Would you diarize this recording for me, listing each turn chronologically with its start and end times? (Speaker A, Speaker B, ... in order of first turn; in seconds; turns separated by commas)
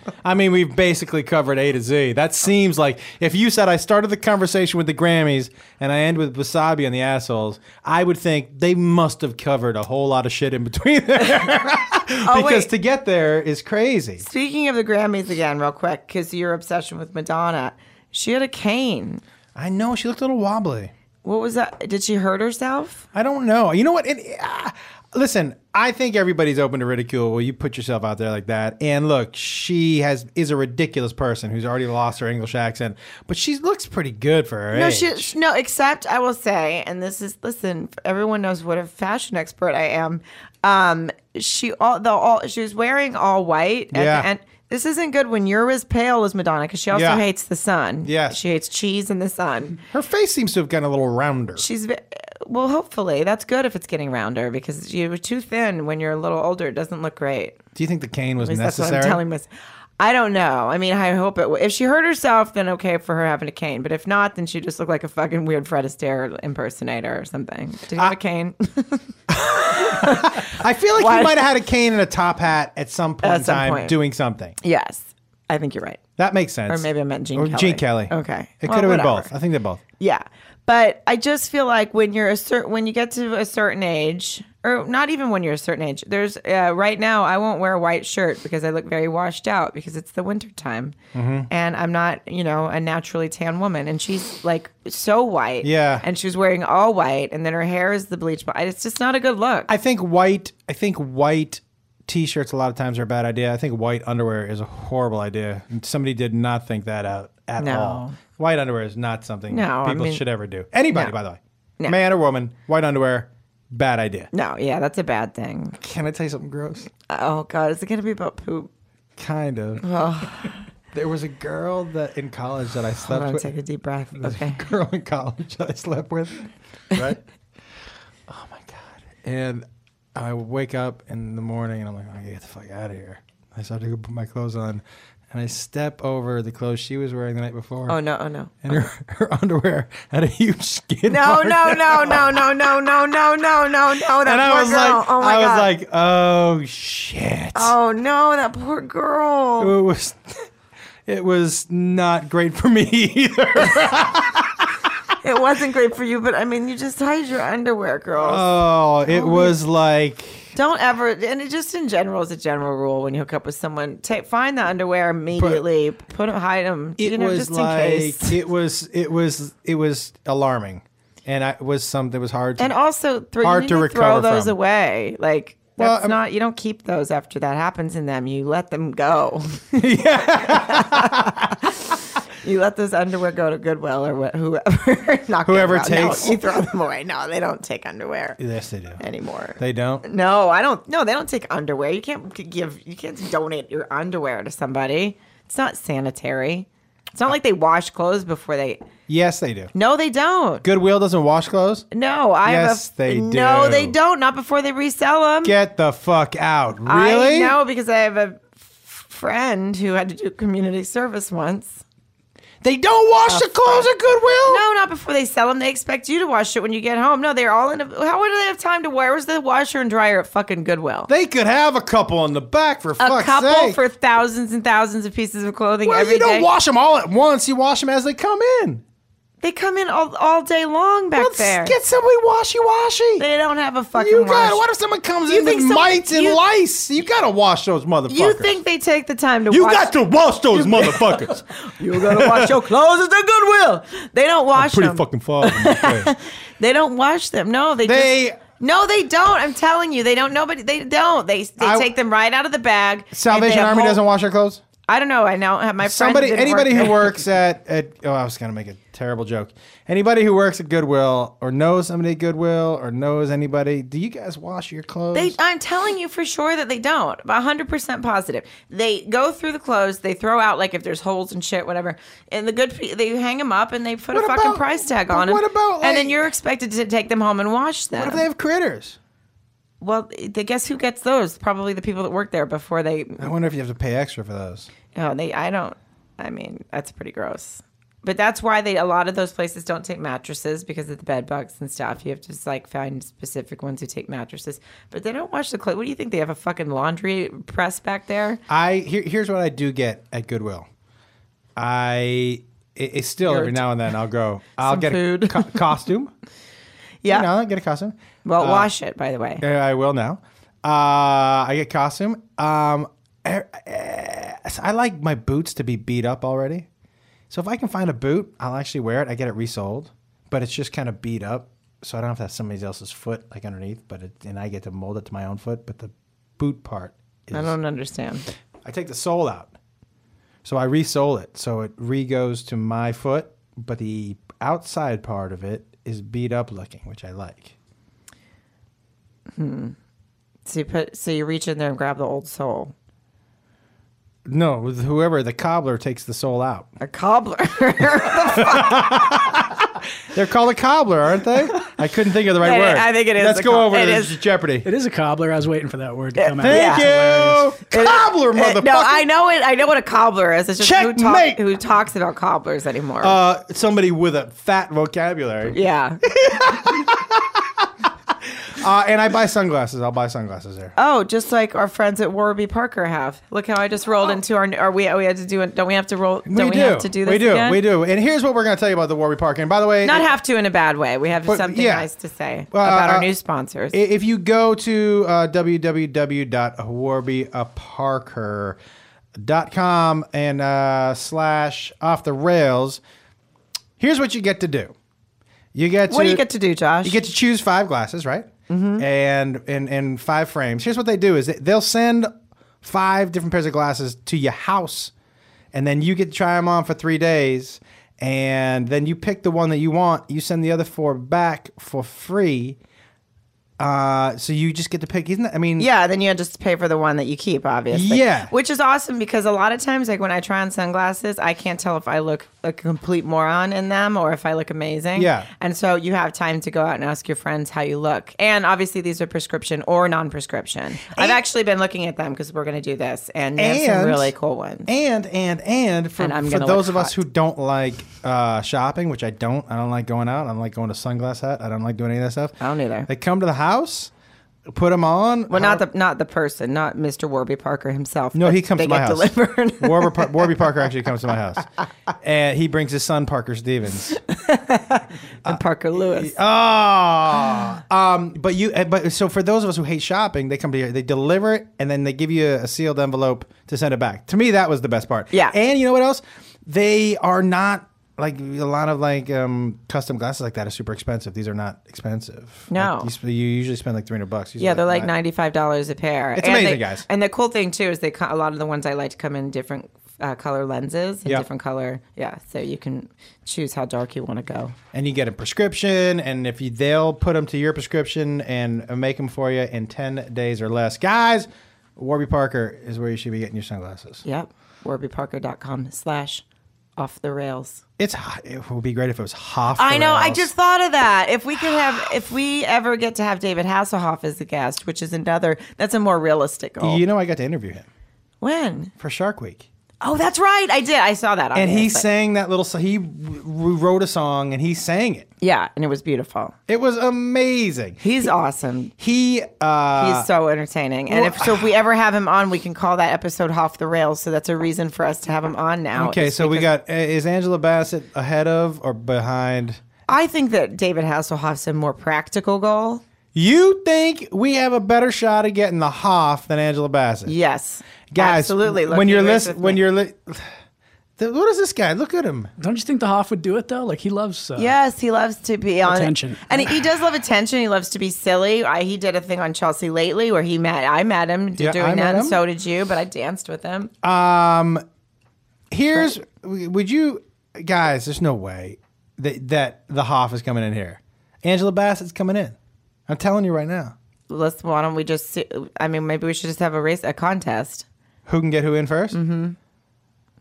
Speaker A: 0.2-14.2, Speaker B: 12.2-12.7, Speaker B: 14.2-19.2, Speaker A: 19.6-20.9, Speaker B: 21.2-23.1, Speaker A: 23.1-35.3, Speaker B: 34.7-49.8, Speaker A: 43.9-44.3, Speaker A: 46.9-47.2, Speaker A: 48.0-48.4, Speaker A: 49.9-51.6, Speaker B: 51.6-57.6, Speaker A: 57.8-59.2, Speaker B: 58.4-71.4, Speaker A: 69.3-74.6, Speaker B: 73.2-74.0, Speaker B: 74.6-76.0, Speaker A: 76.2-79.8, Speaker B: 76.7-79.3, Speaker B: 80.0-91.0, Speaker A: 91.1-91.5, Speaker B: 91.5-99.7, Speaker A: 95.6-96.0, Speaker A: 99.7-114.3, Speaker B: 107.6-108.2, Speaker B: 109.5-110.2, Speaker B: 114.3-115.8, Speaker A: 115.8-116.9, Speaker B: 117.1-118.7, Speaker A: 119.2-119.8, Speaker B: 119.8-120.6, Speaker A: 120.9-123.5, Speaker B: 123.1-124.7, Speaker A: 124.2-127.2, Speaker A: 128.3-138.0, Speaker B: 137.9-138.5, Speaker A: 138.6-142.9, Speaker B: 141.1-145.7, Speaker A: 144.1-147.7, Speaker B: 147.6-149.7, Speaker A: 149.6-150.5, Speaker A: 151.1-154.9, Speaker B: 155.2-158.5, Speaker A: 158.2-160.5, Speaker B: 159.1-159.6, Speaker B: 160.5-168.4, Speaker A: 165.4-165.6, Speaker A: 167.0-172.7, Speaker B: 172.6-188.4, Speaker A: 173.4-174.6, Speaker A: 175.8-176.2, Speaker A: 179.8-181.5, Speaker A: 185.4-186.7, Speaker A: 188.4-189.0, Speaker B: 189.0-198.8, Speaker A: 189.6-190.1, Speaker A: 199.1-199.7, Speaker B: 199.7-200.7, Speaker A: 200.6-201.9, Speaker B: 201.9-205.6, Speaker A: 202.4-204.0, Speaker A: 205.4-207.6, Speaker B: 206.8-211.8, Speaker A: 212.6-214.6, Speaker B: 213.3-213.9, Speaker B: 214.5-221.1, Speaker A: 221.1-223.8, Speaker B: 223.0-226.5, Speaker A: 225.8-228.8, Speaker B: 229.4-231.8, Speaker A: 231.2-233.2, Speaker B: 233.2-234.7, Speaker A: 234.0-238.6, Speaker B: 235.3-236.4, Speaker B: 238.1-239.9, Speaker A: 239.5-242.6, Speaker B: 240.5-254.0, Speaker A: 244.5-246.1, Speaker A: 247.8-248.4, Speaker A: 251.6-251.9, Speaker A: 253.1-254.6, Speaker B: 254.9-257.1, Speaker A: 255.8-265.4, Speaker B: 265.1-278.2, Speaker A: 274.1-276.3, Speaker A: 278.0-279.0, Speaker B: 279.8-283.3, Speaker A: 283.2-284.7, Speaker B: 284.9-298.4, Speaker A: 298.5-300.7, Speaker A: 301.6-306.1, Speaker B: 303.3-303.7, Speaker B: 304.6-305.6, Speaker B: 307.0-307.3, Speaker A: 307.1-308.7, Speaker B: 308.2-309.4, Speaker A: 309.4-316.7, Speaker A: 317.3-327.6, Speaker B: 327.3-328.3, Speaker A: 328.6-329.5, Speaker A: 330.4-337.6, Speaker B: 339.4-339.8, Speaker B: 340.5-342.7, Speaker A: 344.3-346.7, Speaker B: 346.8-348.9, Speaker A: 348.3-354.7, Speaker B: 352.4-354.2, Speaker C: 354.6-357.5, Speaker B: 356.2-356.9, Speaker A: 356.4-359.1, Speaker B: 357.7-363.2, Speaker A: 360.6-361.4, Speaker A: 363.0-367.7, Speaker B: 365.5-366.0, Speaker A: 368.2-370.8, Speaker B: 370.8-377.6, Speaker A: 376.3-380.1, Speaker B: 379.8-383.8, Speaker A: 381.3-381.9, Speaker A: 382.5-383.1, Speaker A: 383.7-388.6, Speaker A: 389.2-392.8, Speaker A: 393.8-394.7, Speaker A: 395.5-396.2, Speaker B: 395.9-397.0, Speaker A: 396.8-402.1, Speaker B: 398.5-398.9, Speaker A: 402.6-404.9, Speaker A: 405.5-412.6, Speaker A: 413.6-415.7, Speaker B: 415.6-434.7, Speaker A: 417.7-418.3, Speaker A: 425.0-425.3, Speaker A: 430.9-431.2, Speaker A: 433.4-434.1, Speaker A: 434.7-443.9, Speaker B: 436.0-437.0, Speaker B: 442.4-442.9, Speaker A: 444.5-445.6, Speaker B: 445.3-450.6, Speaker A: 448.1-451.5, Speaker A: 452.0-454.0, Speaker B: 453.9-456.1, Speaker A: 455.2-474.9, Speaker B: 472.5-472.9, Speaker B: 474.4-484.6, Speaker A: 476.1-476.9, Speaker A: 484.7-494.1, Speaker B: 494.1-496.2, Speaker B: 496.8-497.6, Speaker A: 497.8-500.3, Speaker B: 499.6-506.8, Speaker A: 506.6-507.7, Speaker B: 508.2-508.7, Speaker A: 508.8-509.5, Speaker B: 509.8-511.9, Speaker A: 511.4-515.1, Speaker B: 515.2-516.4, Speaker A: 516.5-517.8, Speaker B: 517.8-518.7, Speaker A: 518.8-520.1, Speaker B: 519.8-526.5, Speaker A: 520.9-521.5, Speaker A: 525.8-529.6, Speaker B: 529.9-532.8, Speaker A: 533.1-537.1, Speaker B: 537.1-539.6, Speaker A: 537.9-540.3, Speaker A: 541.0-542.3, Speaker C: 542.4-544.5, Speaker B: 544.4-553.7, Speaker C: 545.6-546.5, Speaker A: 551.4-552.2, Speaker A: 553.8-554.6, Speaker A: 555.5-562.4, Speaker A: 562.9-563.8, Speaker B: 564.1-567.7, Speaker A: 568.1-569.0, Speaker B: 568.9-569.4